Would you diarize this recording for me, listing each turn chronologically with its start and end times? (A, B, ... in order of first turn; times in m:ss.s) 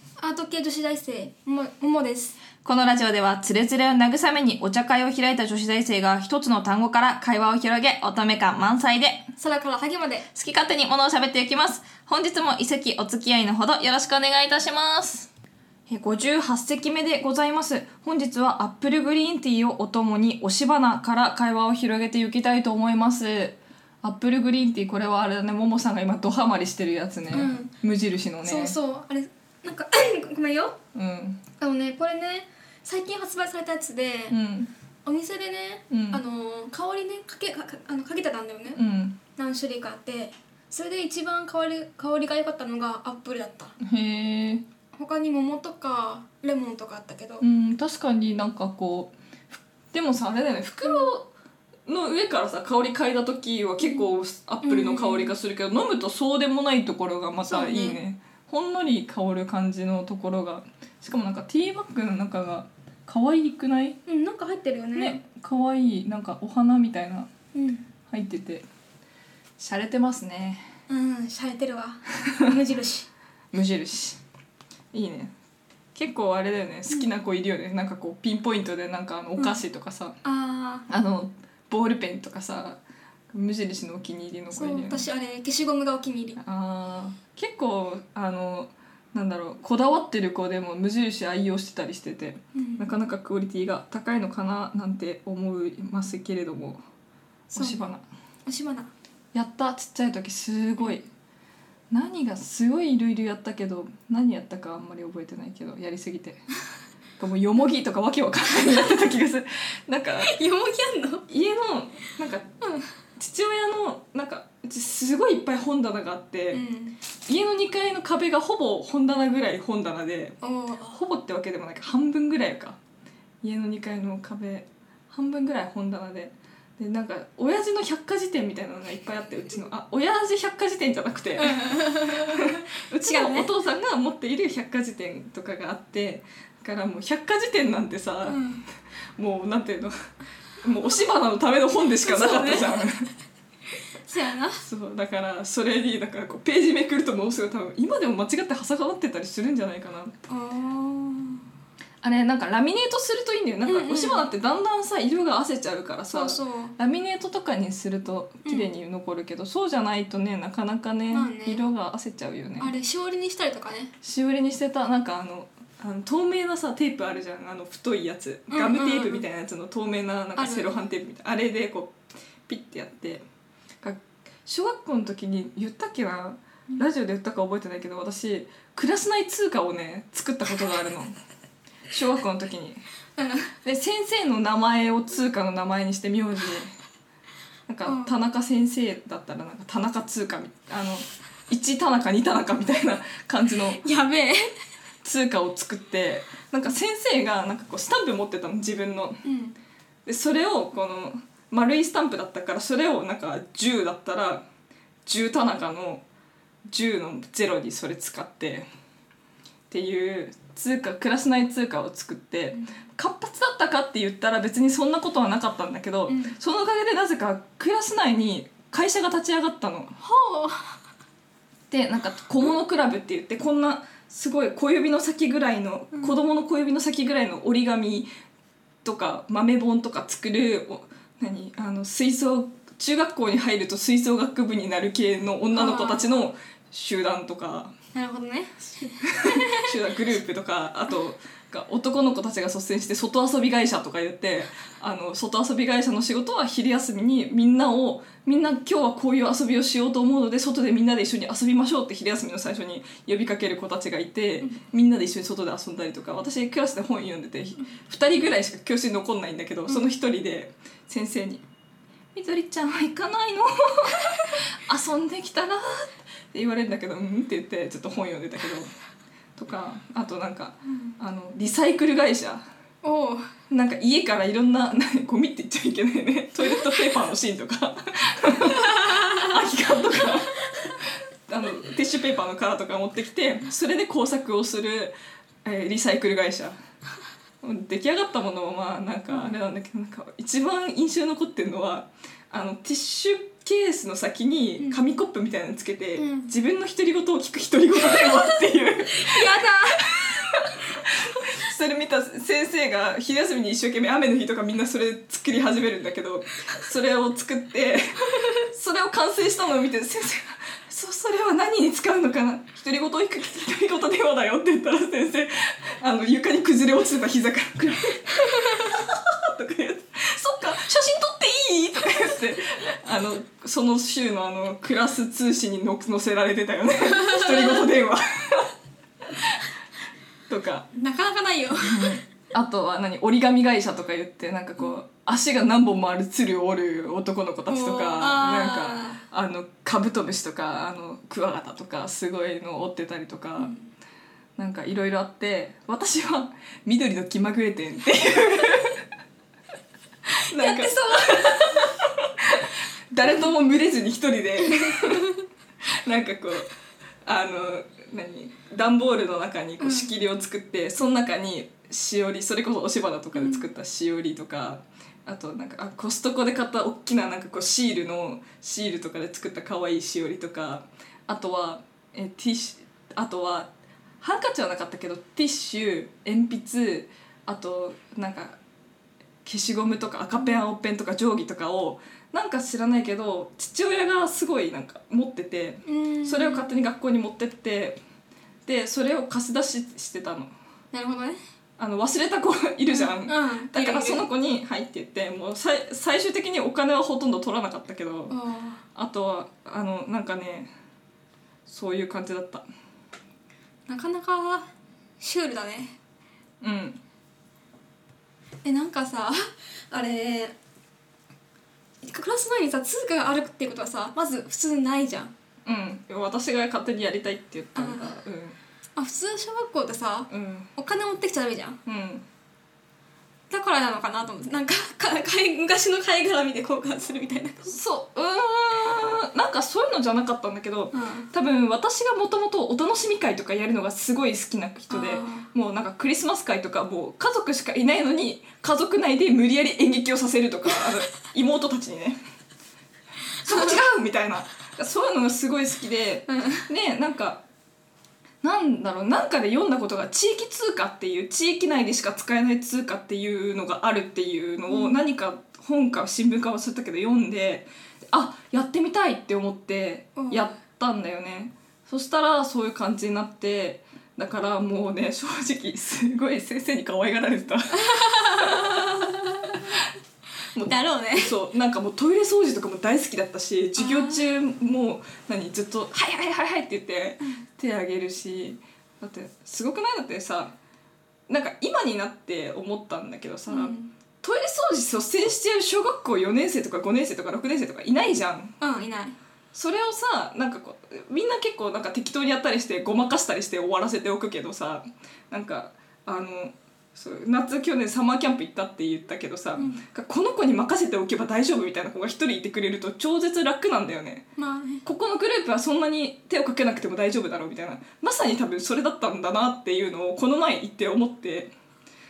0:00.2-0:02.4 A
0:02.6-0:09.3 B
0:09.4-0:10.3 A
0:10.3-0:15.3 B
0:15.9-0:28.8 B
0:27.3-0:27.7 A
0:28.4-0:30.8 A
0:30.9-0:31.4 B
0:31.6-0:34.4 A
0:34.3-0:34.7 B
0:35.0-0:38.8 A
0:35.9-0:36.2 B
0:38.7-0:39.2 B
0:39.4-0:43.7 A
0:43.8-0:44.6 B
0:44.9-0:47.5 A
0:47.4-0:51.3 B
0:51.9-1:04.0 B
0:54.6-0:55.4 A
0:57.5-0:58.0 A
1:04.1-1:05.2 A
1:05.0-1:07.3 B
1:07.5-1:07.8 A
1:08.1-1:08.6 B
1:09.6-1:10.6 B
1:10.9-1:13.1 A
1:13.5-1:14.2 B
1:14.9-1:15.3 B
1:16.0-1:20.2 B
1:19.4-1:19.6 A
1:20.2-1:20.8 A
1:20.9-1:22.8 B
1:23.3-1:25.0 B
1:24.5-1:26.4 A
1:26.4-1:36.8 B
1:32.6-1:32.9 A
1:37.5-1:37.9 A
1:37.5-1:38.0 B
1:38.5-1:38.9 A
1:39.3-1:41.0 B
1:41.9-1:46.4 B
1:47.2-1:50.3 B
1:48.7-1:49.0 A
1:50.2-1:51.2 A
1:51.3-1:52.5 B
1:52.6-1:52.9 A
1:53.2-1:56.6 B
1:56.5-1:57.0 A
1:57.3-2:02.8 B
2:00.4-2:01.0 A
2:03.4-2:18.4 B
2:11.4-2:13.5 A
2:18.2-2:18.6 A
2:19.2-2:19.9 B
2:20.6-2:23.1 B
2:22.0-2:22.8 A
2:24.0-2:24.6 A
2:24.6-2:30.2 B
2:30.3-2:31.4 A
2:32.0-2:42.7 B
2:33.6-2:34.3 A
2:36.1-2:36.7 A
2:41.1-2:41.6 A
2:42.6-2:43.9 A
2:44.0-2:52.0 B
2:48.5-2:49.2 A
2:50.4-2:50.8 A
2:52.5-2:53.2 B
2:53.8-3:01.2 B
3:01.9-3:02.8 B
3:03.2-3:03.5 A
3:03.6-3:06.7 B
3:07.7-3:13.8 B
3:07.8-3:08.1 A
3:13.8-3:14.4 A
3:15.0-3:19.2 B
3:19.2-3:19.6 A
3:20.1-3:24.4 B
3:25.1-3:26.0 B
3:26.7-3:28.7 B
3:29.7-3:40.0 B
3:36.1-3:36.4 A
3:40.0-3:40.8 A
3:41.7-3:48.1 B
3:45.9-3:46.2 A
3:48.8-3:57.7 B
3:55.5-3:56.1 A
3:57.9-3:59.6 A
3:59.1-4:21.4 B
4:22.2-4:28.7 B
4:29.4-4:32.4 B
4:32.8-4:33.3 A
4:33.5-4:40.4 B
4:41.3-4:46.6 B
4:47.4-5:28.5 B
4:49.1-4:49.4 A
4:56.0-4:56.3 A
4:57.8-4:58.2 A
4:58.9-5:00.2 A
5:27.1-5:27.5 A
5:30.3-5:30.7 B
5:30.8-5:32.0 A
5:31.6-5:43.5 B
5:37.5-5:39.0 A
5:43.4-5:43.7 A
5:44.4-5:48.8 B
5:50.3-5:51.7 A
5:50.3-5:55.2 B
5:54.5-5:55.1 A
5:55.8-5:56.5 B
5:57.1-6:13.5 B
5:59.6-5:59.9 A
6:03.2-6:03.5 A
6:14.0-6:18.4 B
6:19.2-6:27.8 B
6:25.7-6:26.5 A
6:28.5-6:30.3 B
6:30.7-6:31.2 A
6:31.6-6:38.2 B
6:32.7-6:34.1 A
6:38.1-6:38.6 A
6:38.7-6:40.5 B
6:41.5-6:42.4 B
6:43.7-6:44.5 A
6:45.0-6:45.8 A
6:46.4-6:46.8 B
6:48.4-6:50.4 A
6:51.8-6:55.1 A
6:55.4-6:58.4 B
6:57.6-6:57.9 A
6:58.8-7:01.6 A
7:00.1-7:00.5 B
7:01.6-7:02.0 B
7:03.3-7:07.5 A
7:07.4-7:22.0 B
7:10.7-7:11.1 A
7:14.7-7:15.3 A
7:23.2-7:27.2 B
7:26.1-7:26.4 A
7:28.2-7:49.6 B
7:34.5-7:34.8 A
7:40.0-7:40.3 A
7:47.7-7:49.4 A
7:50.4-8:00.4 B
7:50.5-7:51.2 A
7:53.6-7:54.0 A
8:01.1-8:08.4 B
8:03.3-8:03.7 A
8:08.4-8:09.0 A
8:09.3-8:24.1 B
8:19.4-8:19.6 A
8:24.2-8:24.6 A
8:24.6-8:31.3 B